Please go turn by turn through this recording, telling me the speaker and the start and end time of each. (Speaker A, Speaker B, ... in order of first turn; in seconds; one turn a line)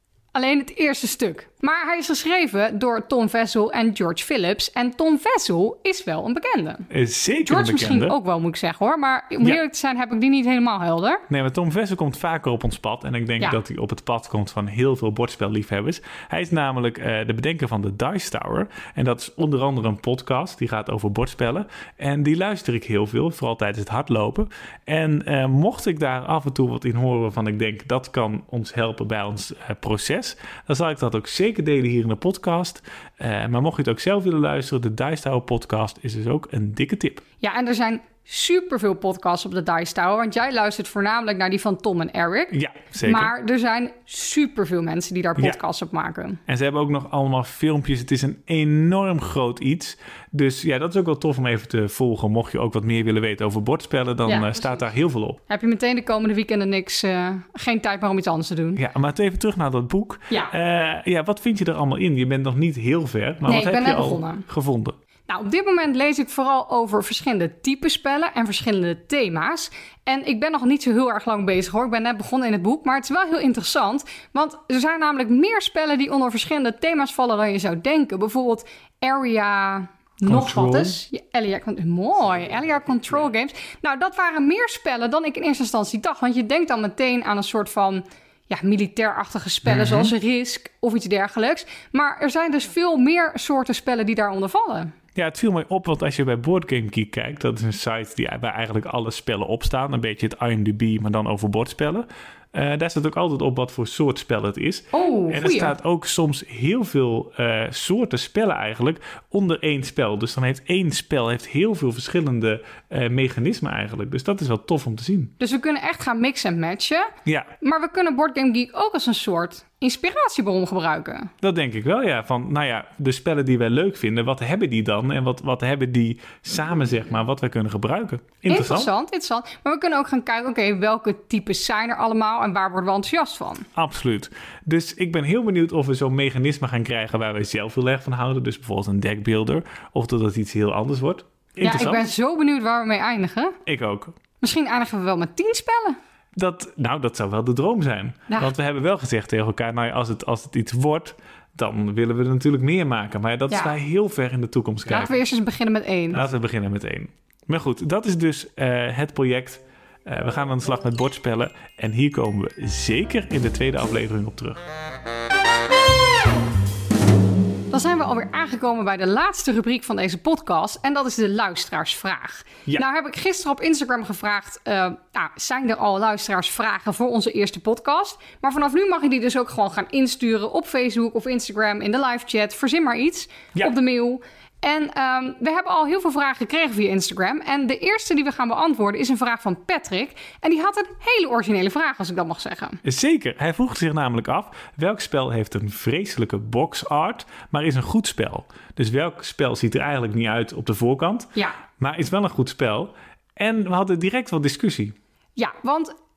Speaker A: 0.3-6.9
Speaker B: 6.9-8.2
Speaker A: 7.5-11.2
Speaker B: 11.3-37.2
Speaker A: 37.4-46.4
Speaker B: 42.5-43.3
Speaker B: 46.5-55.4
Speaker A: 54.3-54.7
Speaker A: 55.5-58.8
Speaker B: 58.8-65.0
Speaker A: 63.5-64.5
Speaker A: 65.3-94.9
Speaker B: 80.3-81.0
Speaker B: 89.7-90.1
Speaker B: 95.2-115.3
Speaker A: 104.9-105.7
Speaker A: 115.4-121.3
Speaker B: 117.2-117.5
Speaker B: 121.4-128.9
Speaker A: 128.5-133.7
Speaker B: 133.8-142.1
Speaker A: 141.6-143.6
Speaker B: 143.7-144.1
Speaker A: 144.4-146.0
Speaker B: 146.4-155.1
Speaker A: 154.9-156.2
Speaker B: 156.1-164.6
Speaker A: 167.7-192.8
Speaker B: 192.8-204.9
Speaker A: 205.4-205.9